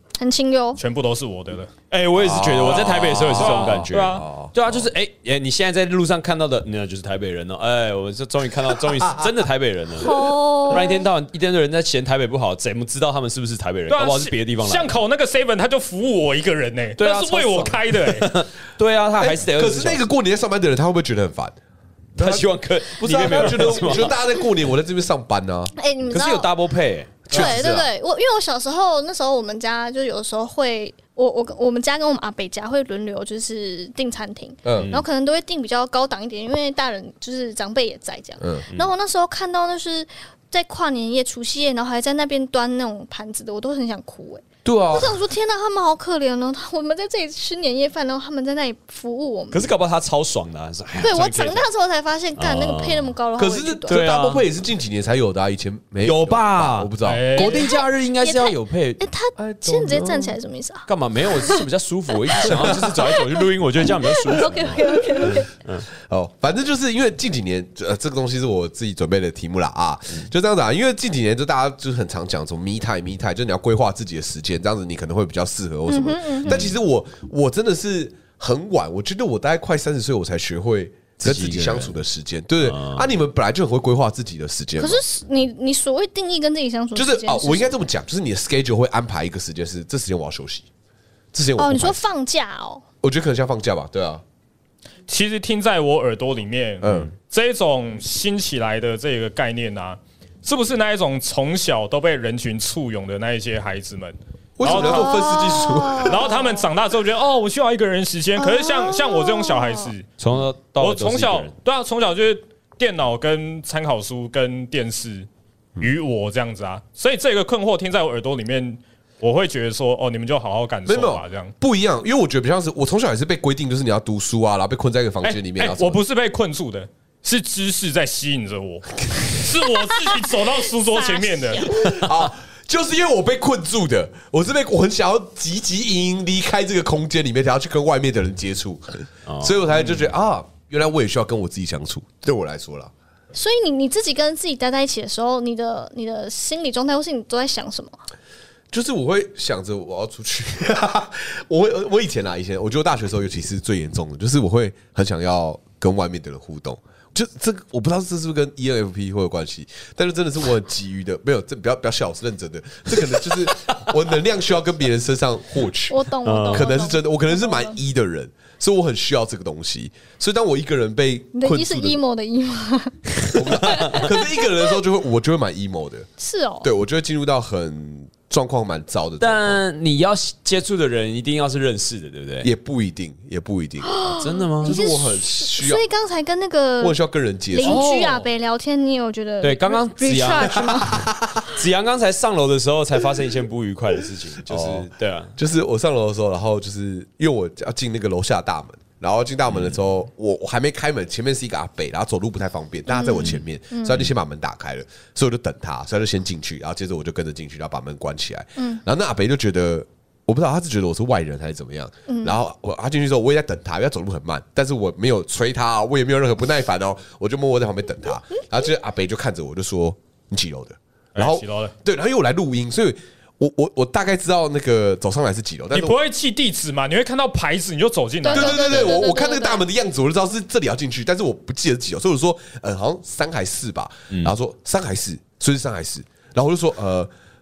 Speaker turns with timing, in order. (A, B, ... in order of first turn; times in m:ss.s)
0:00.2-0:00.8 A
0:00.8-0:01.7 B
0:01.9-0:15.0 C
0:02.1-0:04.9 D
0:02.6-0:04.2 B
0:09.0-0:09.3 D
0:10.0-0:11.1 A
0:13.9-0:18.3 B
0:17.0-0:20.0 C
0:19.2-0:21.6 D
0:22.2-0:24.2 C
0:22.2-0:25.7 D
0:25.8-0:26.5 A
0:26.1-0:27.3 C
0:27.3-0:27.9 D
0:27.3-0:49.7 A
0:34.6-0:34.9 D
0:34.8-0:35.0 C
0:38.4-0:38.7 D
0:44.6-0:45.2 D
0:49.5-0:51.7 C
0:51.0-0:54.0 A
0:52.4-0:53.2 C
0:53.4-0:57.3 D
0:53.9-0:54.5 C
0:56.0-0:59.0 C
0:57.0-0:57.7 B
0:57.4-1:01.6 A
0:59.4-1:00.4 D
1:00.9-1:05.9 C
1:02.4-1:05.5 A
1:02.4-1:02.9 D
1:06.0-1:25.0 D
1:15.9-1:16.6 A
1:16.5-1:16.7 C
1:21.2-1:22.0 C
1:22.6-1:23.1 C
1:24.8-1:27.8 A
1:27.0-1:30.7 D
1:31.3-1:32.0 D
1:31.6-1:32.8 A
1:33.0-1:34.2 D
1:35.1-1:45.5 B
1:36.8-1:37.1 D
1:44.6-1:46.3 D
1:44.6-1:46.4 A
1:46.0-1:50.1 B
1:48.4-1:49.9 A
1:50.2-1:51.5 C
1:50.8-1:55.3 B
1:55.8-2:01.5 B
2:00.8-2:06.0 D
2:05.2-2:11.7 B
2:10.9-2:11.9 A
2:11.7-2:22.9 D
2:19.2-2:19.7 C
2:19.7-2:20.1 B
2:23.3-2:28.0 A
2:28.7-2:52.0 D
2:43.3-2:43.8 C
2:45.9-2:47.8 A
2:46.2-2:46.7 C
2:51.3-2:54.6 A
2:53.3-2:56.1 D
2:53.7-2:54.0 C
2:56.2-2:56.7 A
2:56.6-2:59.6 D
2:59.2-3:02.5 C
3:02.4-3:05.8 D
3:03.9-3:07.0 A
3:04.2-3:04.8 C
3:06.8-3:07.8 D
3:07.5-3:11.0 A
3:07.6-3:08.3 C
3:09.4-3:15.4 C
3:10.5-3:11.5 D
3:14.4-3:46.0 D
3:19.5-3:19.8 C
3:22.9-3:24.1 A
3:28.6-3:28.8 A
3:32.1-3:32.4 A
3:41.1-3:41.7 B
3:45.7-3:49.0 B
3:48.2-3:57.1 D
3:48.2-3:49.6 A